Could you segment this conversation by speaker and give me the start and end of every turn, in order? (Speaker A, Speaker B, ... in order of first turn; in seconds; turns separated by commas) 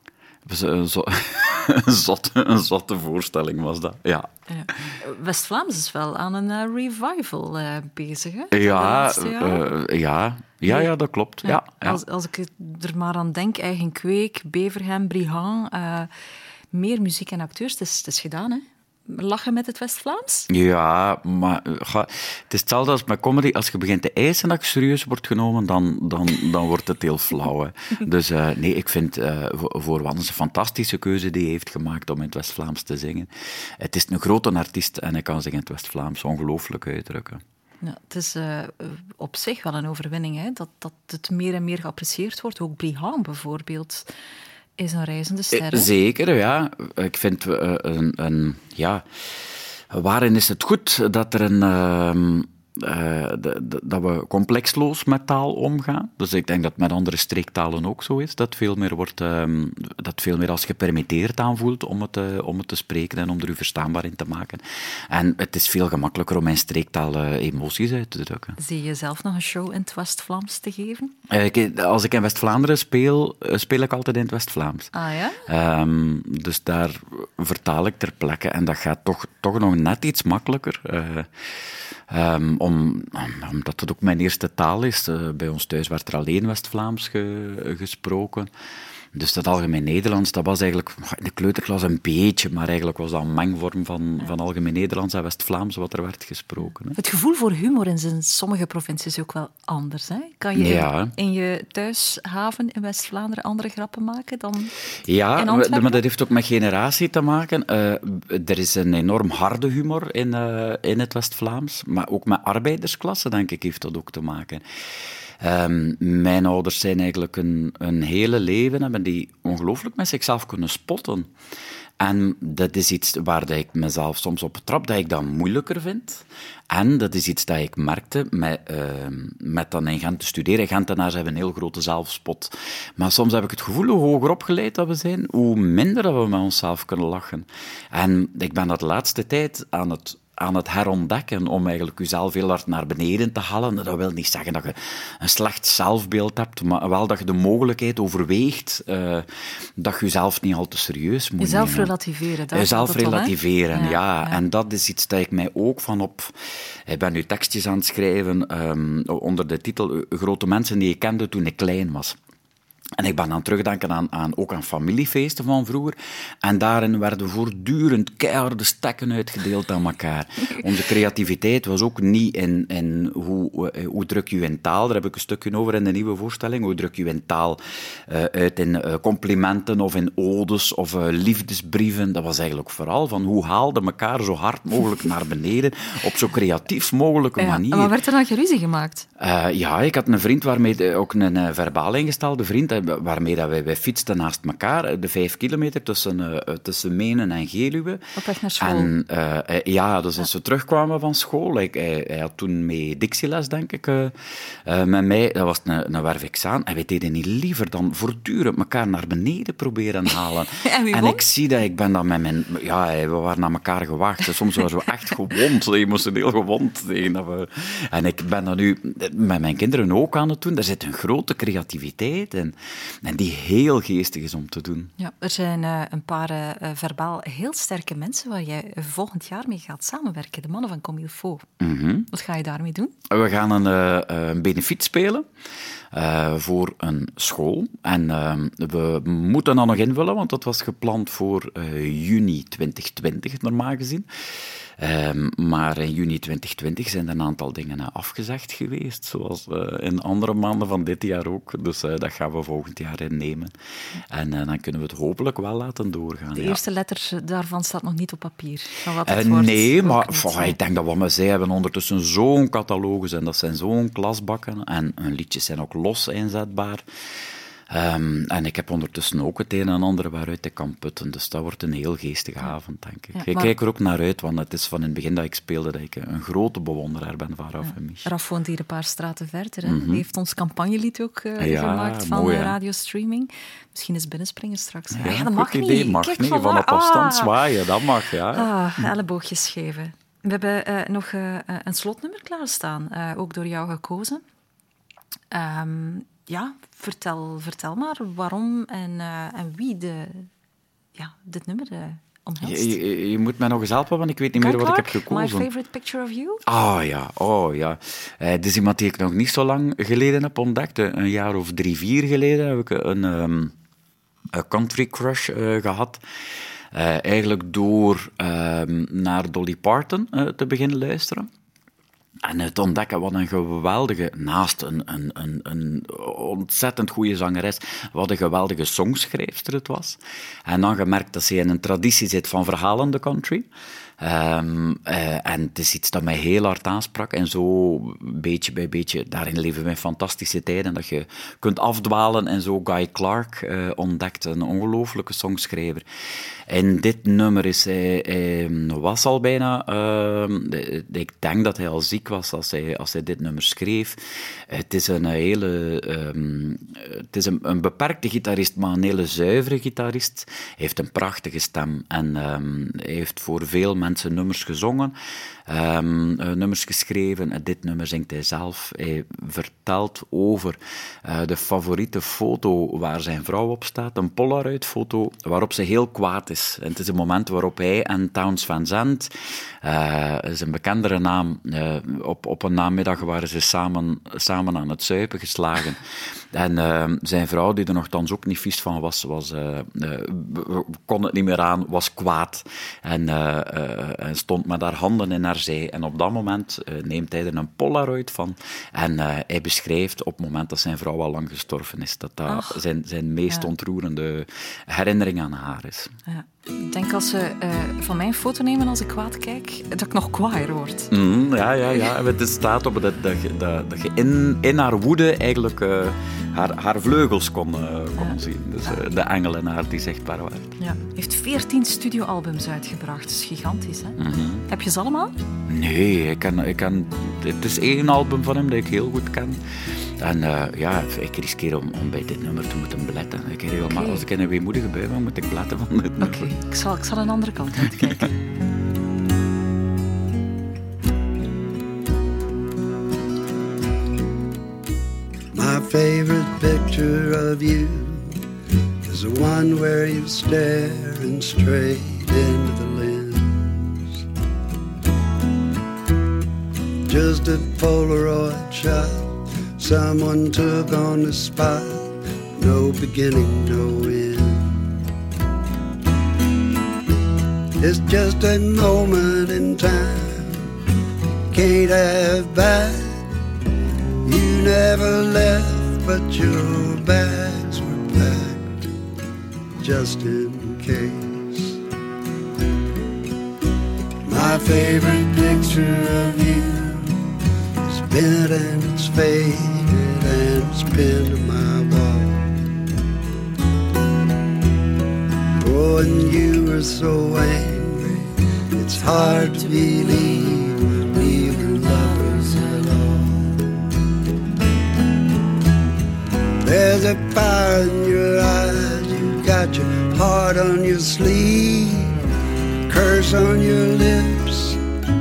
Speaker A: 0.5-4.3, Speaker B: 4.5-9.6, Speaker A: 8.5-12.0, Speaker B: 10.7-10.9, Speaker B: 11.4-16.1, Speaker B: 16.7-20.5, Speaker A: 20.5-37.4, Speaker B: 37.8-44.0, Speaker B: 44.8-45.9, Speaker A: 45.5-49.0, Speaker A: 49.9-68.5, Speaker B: 68.6-71.1, Speaker A: 71.3-74.9, Speaker B: 74.9-75.4, Speaker A: 75.5-81.5, Speaker A: 82.1-88.5, Speaker A: 89.1-97.0, Speaker B: 96.9-104.7, Speaker A: 100.5-101.1, Speaker A: 105.1-114.6, Speaker B: 105.4-106.0, Speaker A: 115.4-121.3, Speaker A: 122.0-149.3, Speaker A: 149.8-151.9, Speaker B: 151.4-154.4, Speaker A: 152.5-156.3, Speaker A: 156.9-162.2, Speaker A: 163.0-187.9, Speaker B: 187.4-189.1, Speaker A: 189.2-198.0, Speaker B: 198.2-198.9, Speaker A: 198.6-204.1, Speaker A: 204.7-224.9, Speaker B: 210.6-211.2, Speaker B: 225.0-231.4, Speaker A: 231.6-232.1, Speaker B: 232.1-232.9, Speaker A: 233.1-235.2, Speaker A: 235.9-244.1, Speaker A: 244.8-253.5, Speaker A: 254.1-256.6, Speaker B: 256.4-260.6, Speaker A: 259.1-266.8, Speaker A: 267.7-278.1, Speaker B: 273.1-273.5, Speaker B: 277.6-287.3, Speaker A: 279.6-280.0, Speaker A: 281.4-282.6, Speaker A: 284.9-288.9, Speaker B: 288.3-294.2, Speaker B: 295.3-300.3, Speaker B: 300.9-302.8, Speaker A: 302.4-305.5, Speaker B: 304.4-306.4, Speaker A: 306.4-313.5, Speaker A: 314.3-316.0, Speaker A: 316.7-321.3, Speaker A: 322.2-333.4, Speaker A: 334.0-345.8, Speaker A: 346.5-354.0, Speaker A: 354.5-364.9, Speaker A: 365.5-379.1, Speaker A: 379.6-385.8, Speaker A: 386.3-405.9, Speaker B: 402.3-402.6, Speaker B: 406.1-410.9, Speaker A: 410.9-420.5, Speaker B: 418.0-418.8, Speaker B: 420.6-424.0, Speaker A: 424.0-424.4, Speaker B: 424.5-425.1, Speaker A: 425.5-429.4, Speaker A: 430.0-436.3, Speaker B: 433.6-434.0, Speaker B: 436.0-438.1, Speaker C: 445.3-448.1, Speaker C: 448.8-454.0, Speaker C: 456.9-464.6, Speaker C: 467.6-470.4, Speaker C: 471.3-473.0, Speaker C: 474.0-478.7, Speaker C: 479.5-481.6, Speaker C: 484.1-487.0, Speaker C: 487.6-492.4, Speaker C: 495.4-503.6, Speaker C: 506.4-511.9, Speaker C: 512.7-514.6